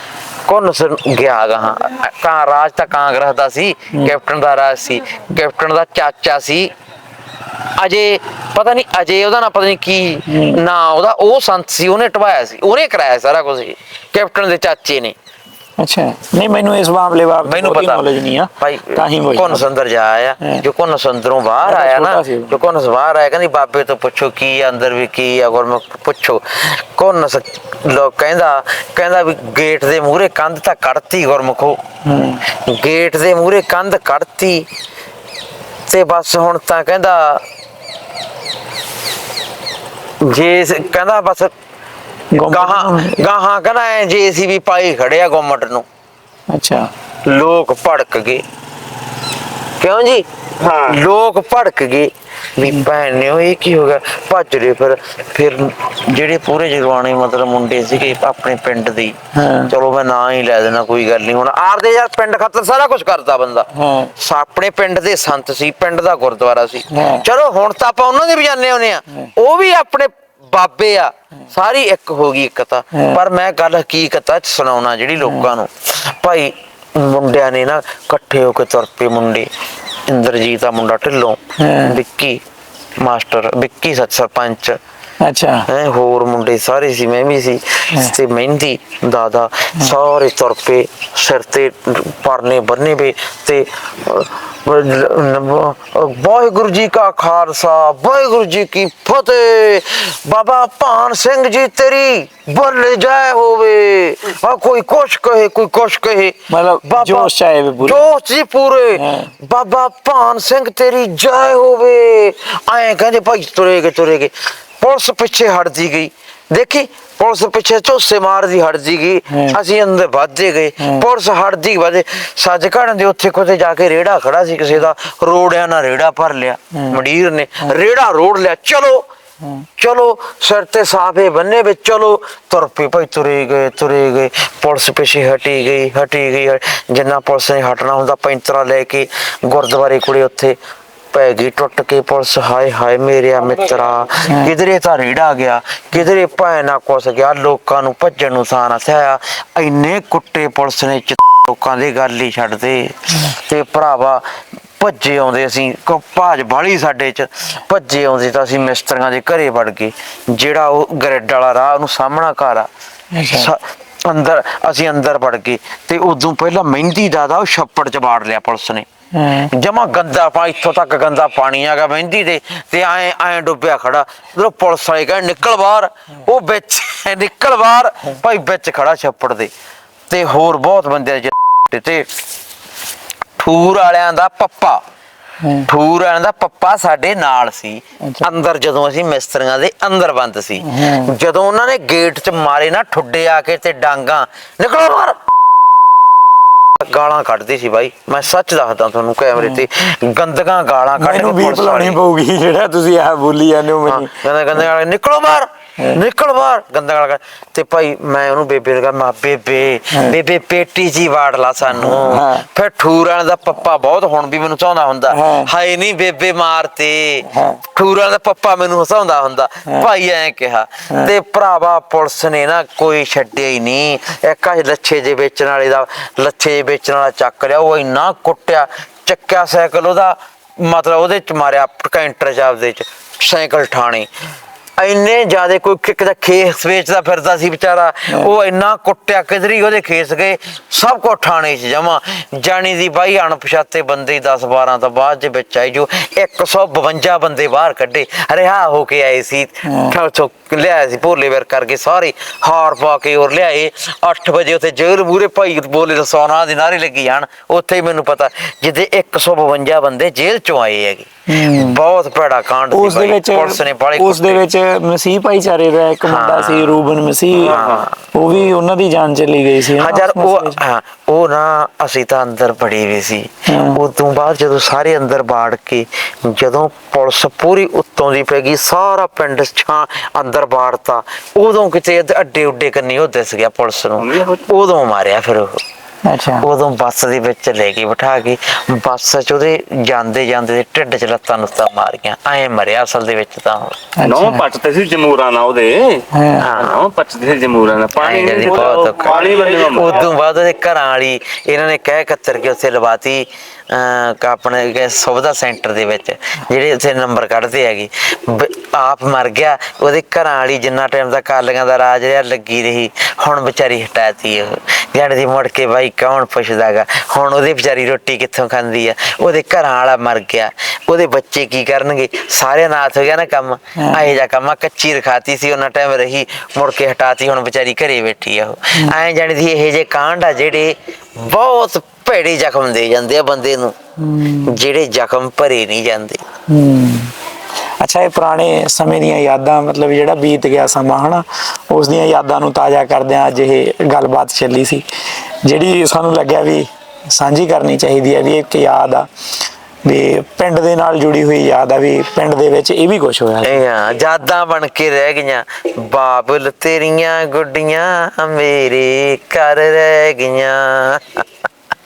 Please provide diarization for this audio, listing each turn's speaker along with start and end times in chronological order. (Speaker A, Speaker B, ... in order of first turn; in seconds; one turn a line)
Speaker A: 0.5-6.7
Speaker A: 7.8-15.1
Speaker B: 10.3-10.6
Speaker B: 15.8-19.6
Speaker A: 17.4-18.1
Speaker A: 18.6-31.8
Speaker B: 21.6-22.6
Speaker B: 32.0-32.4
Speaker A: 32.5-34.6
Speaker A: 35.9-37.4
Speaker A: 40.2-41.5
Speaker B: 42.3-43.2
Speaker A: 42.4-45.8
Speaker B: 46.5-46.9
Speaker A: 47.3-48.4
Speaker A: 49.8-50.2
Speaker C: 50.6-51.0
Speaker A: 50.9-59.1
Speaker B: 59.3-59.7
Speaker A: 59.7-79.5
Speaker B: 63.7-64.1
Speaker B: 66.9-67.2
Speaker B: 72.9-73.2
Speaker B: 75.2-75.5
Speaker A: 80.1-82.4
Speaker B: 81.6-82.0
Speaker A: 83.0-84.8
Speaker B: 85.2-85.7
Speaker A: 85.7-129.0
Speaker B: 106.5-108.0
Speaker B: 109.0-109.3
Speaker B: 119.3-119.6
Speaker B: 120.8-121.0
Speaker A: 129.8-140.6
Speaker A: 141.1-154.2
Speaker A: 154.8-162.7
Speaker B: 163.1-163.5
Speaker A: 163.3-168.8
Speaker B: 169.1-169.5
Speaker A: 169.5-179.5
Speaker A: 180.1-182.1
Speaker A: 183.4-184.8
Speaker B: 185.4-185.7
Speaker A: 185.7-195.2
Speaker B: 190.6-191.1
Speaker A: 196.8-202.0
Speaker B: 201.0-204.1
Speaker A: 203.8-234.1
Speaker B: 211.7-212.4
Speaker B: 215.1-215.5
Speaker B: 217.3-217.6
Speaker A: 234.8-264.4
Speaker B: 249.6-249.9
Speaker B: 261.3-261.8
Speaker B: 262.7-267.6
Speaker A: 266.0-267.9
Speaker C: 267.4-267.9
Speaker B: 268.1-270.6
Speaker A: 269.8-285.6
Speaker B: 273.5-273.8
Speaker C: 284.0-284.4
Speaker B: 286.1-286.5
Speaker A: 286.4-293.8
Speaker B: 294.0-294.4
Speaker C: 294.0-300.1
Speaker B: 296.1-296.5
Speaker A: 296.4-296.8
Speaker A: 298.0-333.7
Speaker B: 323.8-324.1
Speaker B: 334.0-334.5
Speaker A: 334.4-336.2
Speaker B: 336.5-337.1
Speaker B: 337.8-344.8
Speaker B: 345.4-349.1
Speaker B: 349.9-353.6
Speaker A: 353.4-361.2